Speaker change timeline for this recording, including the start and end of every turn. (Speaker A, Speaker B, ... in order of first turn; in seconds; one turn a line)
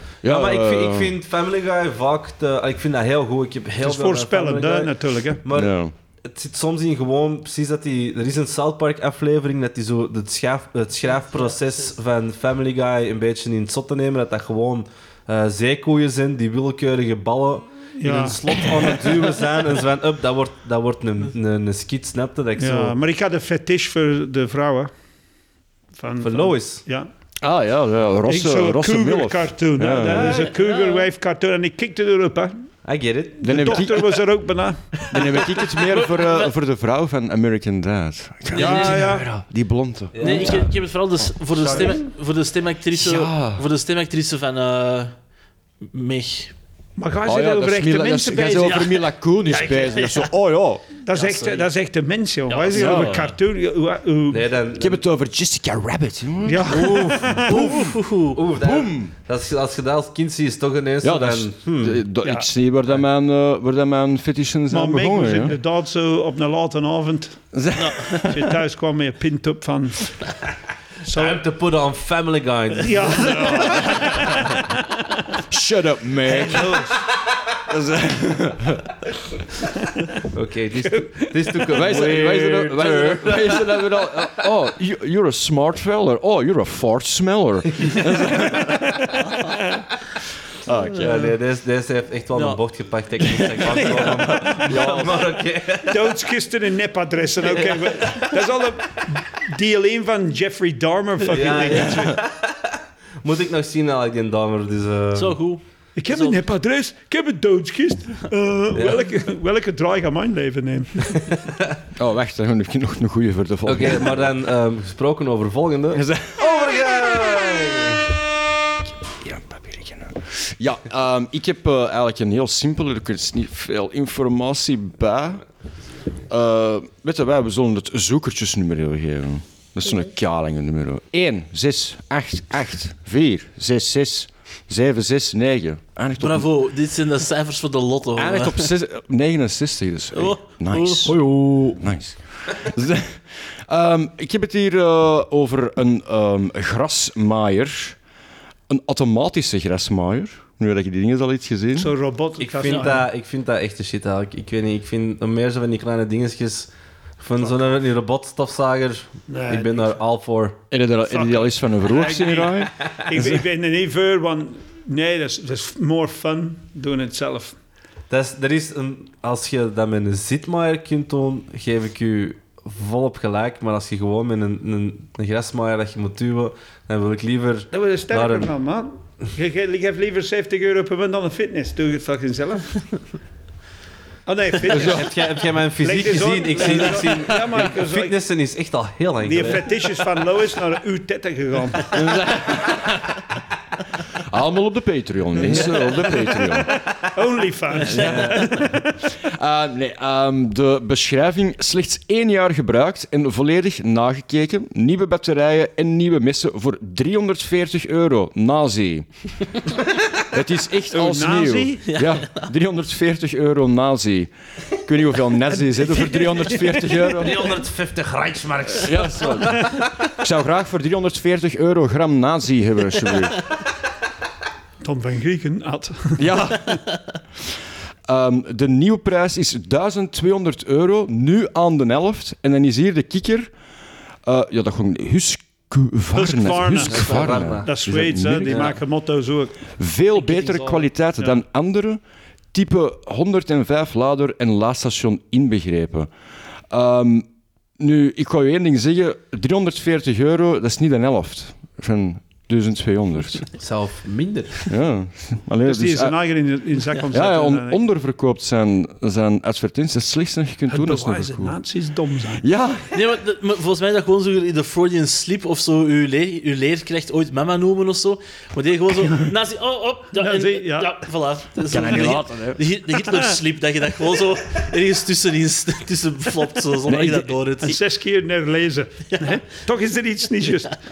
Speaker A: 0.2-1.1
Speaker B: 0.2-22.9
Speaker C: 3.8-5.4
Speaker A: 5.5-5.9
Speaker C: 18.0-18.4
Speaker C: 22.6-24.9
Speaker C: 25.9-27.1
Speaker B: 26.2-26.8
Speaker A: 27.4-30.4
Speaker C: 28.2-32.5
Speaker B: 30.1-30.4
Speaker D: 30.2-31.1
Speaker B: 32.8-33.8
Speaker C: 33.4-35.0
Speaker A: 33.4-34.3
Speaker A: 35.1-41.9
Speaker D: 35.8-36.5
Speaker D: 38.5-39.1
Speaker C: 38.5-39.3
Speaker B: 40.1-40.8
Speaker D: 40.2-45.1
Speaker B: 41.6-42.0
Speaker A: 42.9-43.6
Speaker D: 45.8-46.5
Speaker C: 47.0-48.8
Speaker A: 47.2-50.9
Speaker D: 48.6-50.3
Speaker C: 51.0-54.5
Speaker D: 51.1-51.7
Speaker D: 52.5-53.3
Speaker A: 52.7-53.3
Speaker B: 54.3-55.0
Speaker A: 54.8-57.9
Speaker C: 56.4-57.8
Speaker D: 57.5-58.4
Speaker B: 58.3-62.0
Speaker A: 58.6-59.1
Speaker A: 61.0-65.6
Speaker C: 64.7-67.4
Speaker A: 67.5-68.5
Speaker D: 67.8-68.2
Speaker C: 68.2-70.2
Speaker C: 71.0-71.4
Speaker B: 71.1-73.5
Speaker C: 72.8-74.6
Speaker A: 73.2-74.6
Speaker A: 75.5-76.9
Speaker C: 76.3-76.9
Speaker A: 77.7-78.9
Speaker B: 80.3-83.8
Speaker A: 81.7-89.3
Speaker C: 88.6-89.1
Speaker A: 90.6-91.3
Speaker B: 91.0-96.0
Speaker D: 92.3-92.6
Speaker A: 93.2-95.4
Speaker C: 93.7-94.7
Speaker C: 95.8-102.2
Speaker B: 97.5-98.3
Speaker B: 101.3-102.5
Speaker B: 103.2-105.4
Speaker D: 105.1-106.4
Speaker C: 106.0-111.2
Speaker B: 108.7-109.0
Speaker A: 112.0-114.3
Speaker B: 113.7-118.0
Speaker A: 115.9-117.6
Speaker A: 119.1-125.4
Speaker A: 126.3-136.5
Speaker D: 136.2-138.7
Speaker A: 138.2-148.0
Speaker D: 140.1-141.1
Speaker A: 148.7-151.9
Speaker C: 151.8-153.1
Speaker B: 152.4-160.6
Speaker C: 159.3-160.0
Speaker A: 160.7-163.4
Speaker C: 161.1-167.6
Speaker B: 168.1-178.5
Speaker C: 177.7-182.8
Speaker C: 184.2-185.1
Speaker B: 184.7-189.8
Speaker A: 184.7-185.1
Speaker C: 185.8-188.2
Speaker C: 189.2-191.9
Speaker A: 191.9-193.3
Speaker A: 194.3-196.7
Speaker B: 195.4-195.9
Speaker C: 197.1-198.8
Speaker A: 197.8-209.1
Speaker A: 210.3-217.4
Speaker C: 210.9-211.8
Speaker D: 211.9-212.5
Speaker B: 217.2-219.5
Speaker A: 218.7-223.4
Speaker C: 224.8-226.2
Speaker A: 226.2-226.8
Speaker A: 228.1-233.5
Speaker A: 234.2-238.7
Speaker C: 236.1-239.6
Speaker B: 236.8-238.8
Speaker A: 239.8-242.0
Speaker D: 240.2-240.9
Speaker A: 242.5-246.1
Speaker A: 246.7-247.2
Speaker A: 247.8-253.5
Speaker B: 253.6-254.7
Speaker A: 254.7-256.2
Speaker C: 255.6-257.8
Speaker A: 257.1-261.6
Speaker C: 260.7-262.4
Speaker A: 262.4-263.0
Speaker D: 262.9-277.8
Speaker C: 270.2-271.0
Speaker A: 271.7-272.6
Speaker A: 276.9-277.3
Speaker C: 277.6-280.8